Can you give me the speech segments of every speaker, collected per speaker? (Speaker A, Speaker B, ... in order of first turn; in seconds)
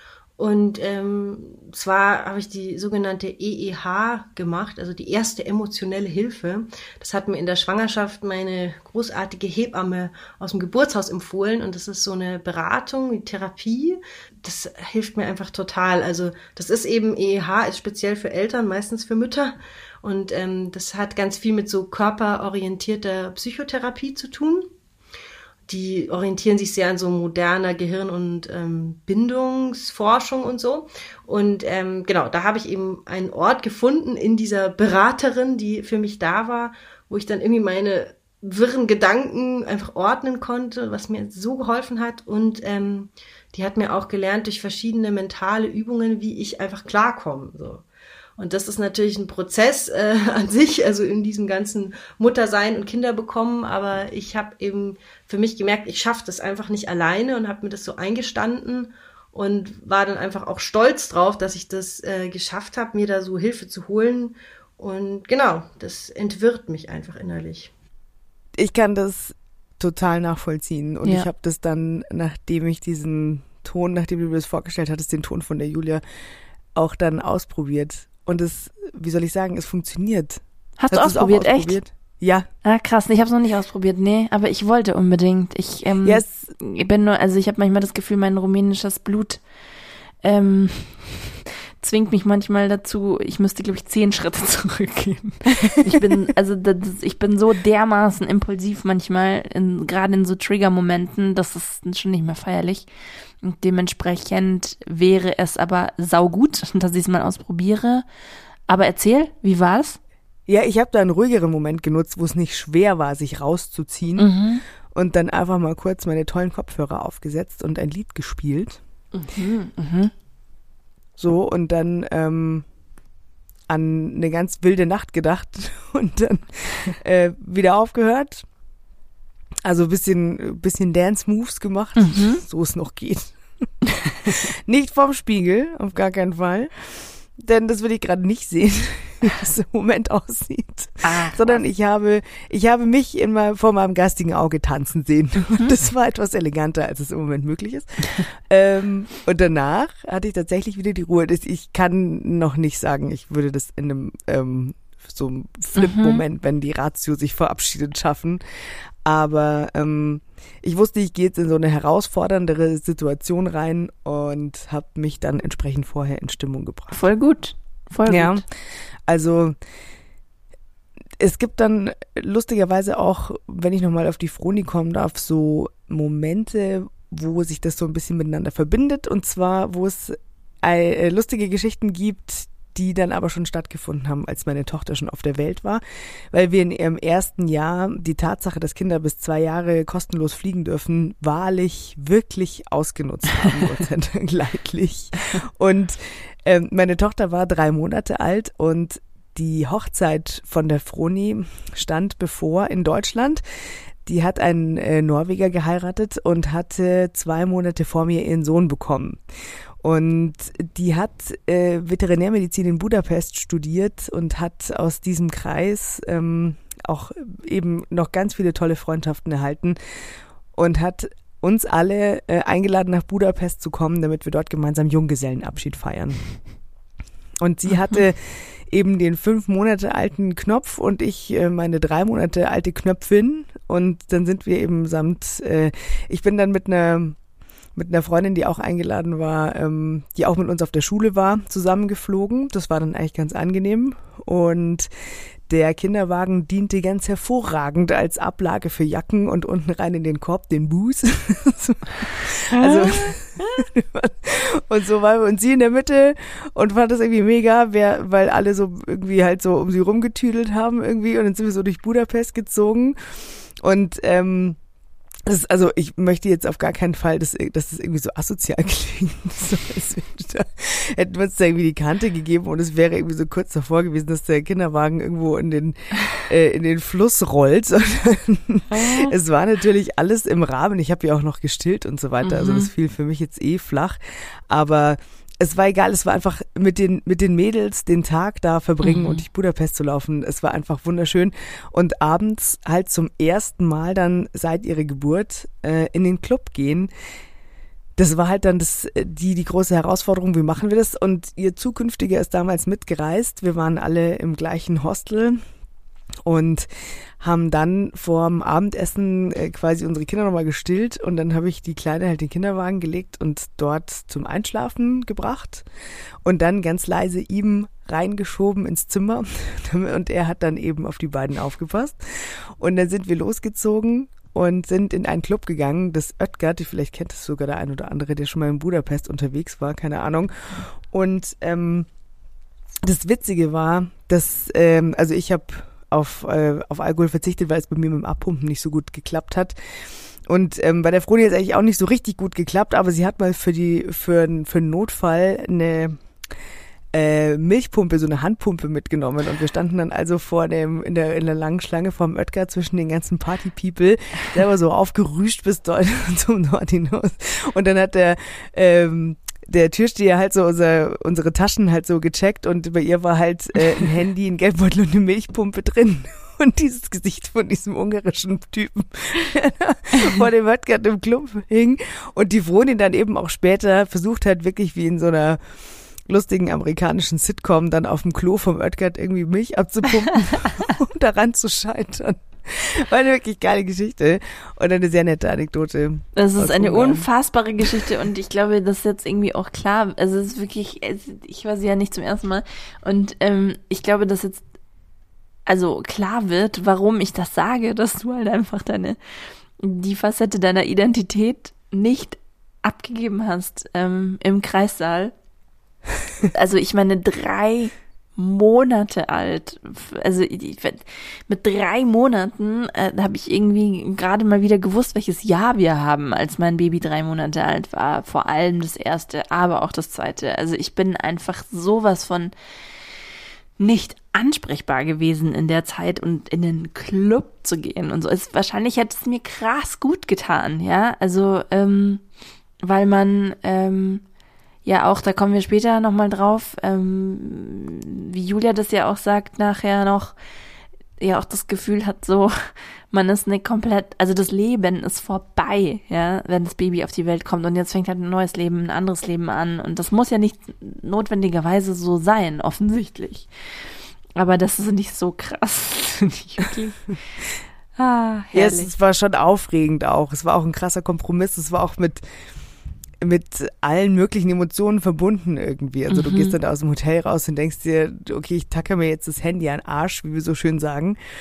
Speaker A: 0.4-24.7, 25.7-47.8, 48.4-67.7
Speaker B: 68.6-76.0, 76.8-82.5, 86.0-86.5, 95.6-96.1, 110.5-114.3, 114.9-118.8, 121.2-122.7, 123.7-128.4, 129.6-133.4, 134.1-158.4, 159.0-166.9, 168.1-168.5, 169.1-169.6, 171.2-203.4, 204.0-209.2, 209.8-219.8, 220.5-226.3, 227.4-237.2, 237.8-244.9, 245.5-263.0, 263.6-264.6, 265.2-296.9, 298.0-305.4, 306.2-306.7, 307.2-315.6, 316.2-331.9, 332.8-339.6, 340.2-346.0, 346.9-375.4, 376.1-387.1, 458.3-462.1, 463.0-471.0
Speaker C: 80.8-81.8, 82.6-89.4, 90.2-91.2, 91.8-102.9, 103.4-108.0, 108.7-110.0, 114.2-114.6, 119.1-120.1, 132.0-132.4, 141.0-141.6, 155.8-156.2, 166.9-168.4, 278.8-279.1, 282.2-282.7, 288.8-289.2, 386.2-394.4, 395.5-399.0, 399.6-405.1, 406.3-422.3, 423.6-432.0, 432.6-434.0, 434.6-440.2, 441.0-442.3, 442.9-453.3, 454.2-456.9, 457.8-458.7, 465.9-466.4